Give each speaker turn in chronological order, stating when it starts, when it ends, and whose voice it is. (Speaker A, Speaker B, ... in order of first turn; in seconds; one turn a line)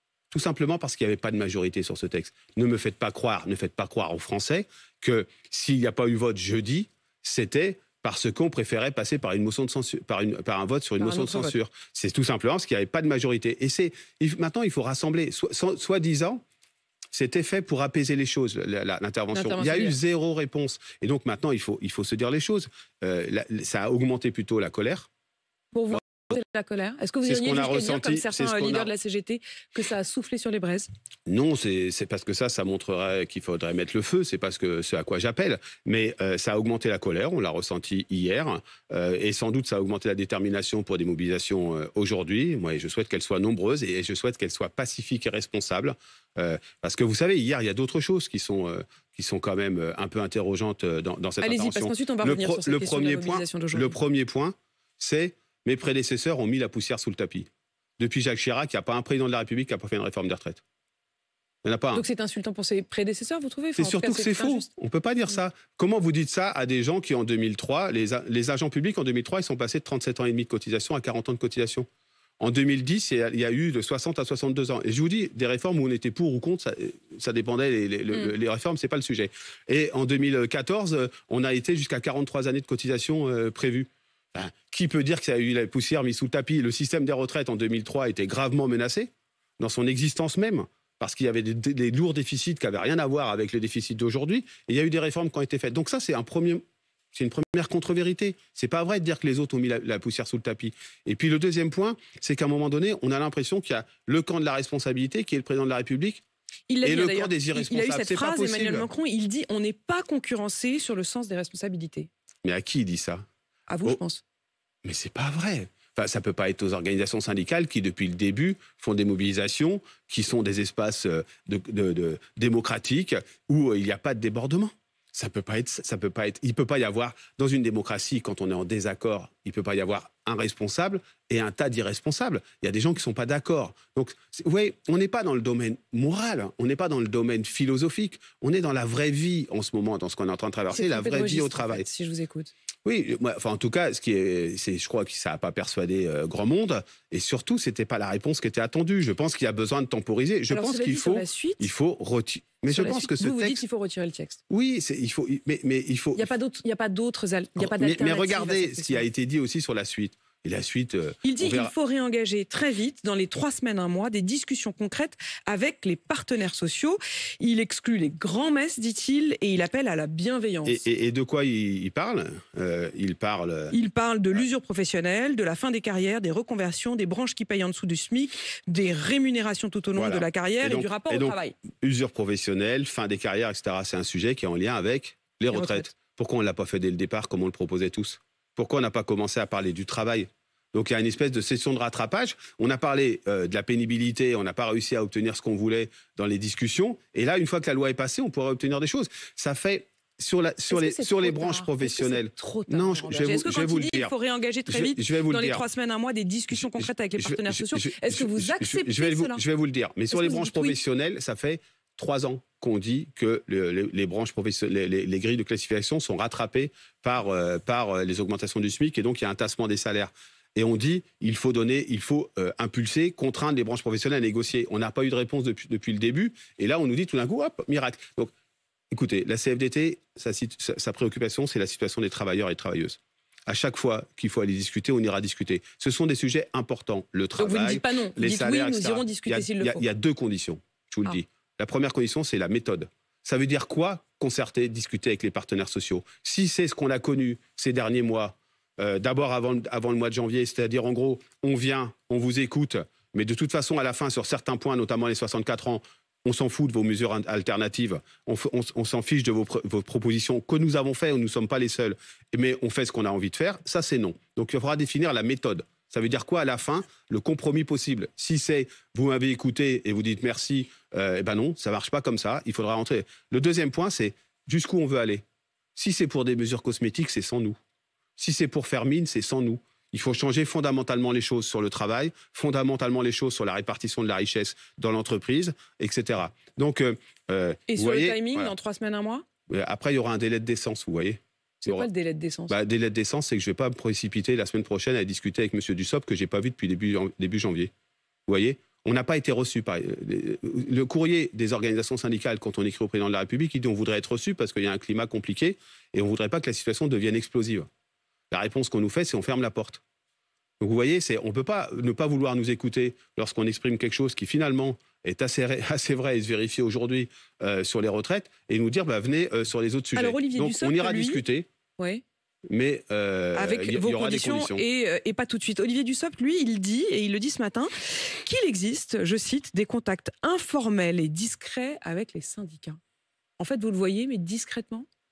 Speaker A: 0.3-16.4
Speaker B: 11.0-11.5
Speaker A: 17.1-25.1
Speaker B: 19.3-20.0
Speaker B: 25.7-30.9
Speaker A: 27.2-28.9
Speaker A: 31.3-57.5
Speaker B: 51.4-54.0
Speaker A: 58.0-60.6
Speaker A: 61.6-62.0
Speaker B: 61.9-64.7
Speaker A: 63.8-71.9
Speaker A: 72.4-96.6
Speaker A: 97.1-106.2
Speaker B: 106.7-112.1
Speaker A: 106.8-108.9
Speaker A: 112.4-113.2
Speaker B: 113.7-114.2
Speaker A: 114.8-141.8
Speaker B: 140.7-142.5
Speaker A: 142.8-153.6
Speaker B: 150.5-151.7
Speaker B: 152.7-154.4
Speaker A: 154.5-156.3
Speaker B: 156.2-159.0
Speaker A: 157.6-161.7
Speaker B: 161.2-170.8
Speaker A: 170.6-173.7
Speaker B: 173.7-181.6
Speaker A: 179.9-204.1
Speaker B: 185.5-185.8
Speaker B: 200.7-209.4
Speaker A: 204.7-205.6
Speaker A: 206.5-228.3
Speaker B: 210.1-210.8
Speaker A: 228.9-275.2
Speaker B: 237.4-239.8
Speaker A: 275.8-277.6
Speaker A: 278.2-288.5
Speaker B: 287.7-289.2
Speaker A: 289.5-291.9
Speaker B: 291.6-292.5
Speaker A: 292.5-297.7
Speaker A: 298.3-307.7
Speaker A: 308.3-309.8
Speaker A: 310.6-321.5
Speaker B: 319.9-321.2
Speaker A: 322.5-324.6
Speaker B: 323.3-327.7
Speaker B: 328.2-332.8
Speaker B: 333.4-334.9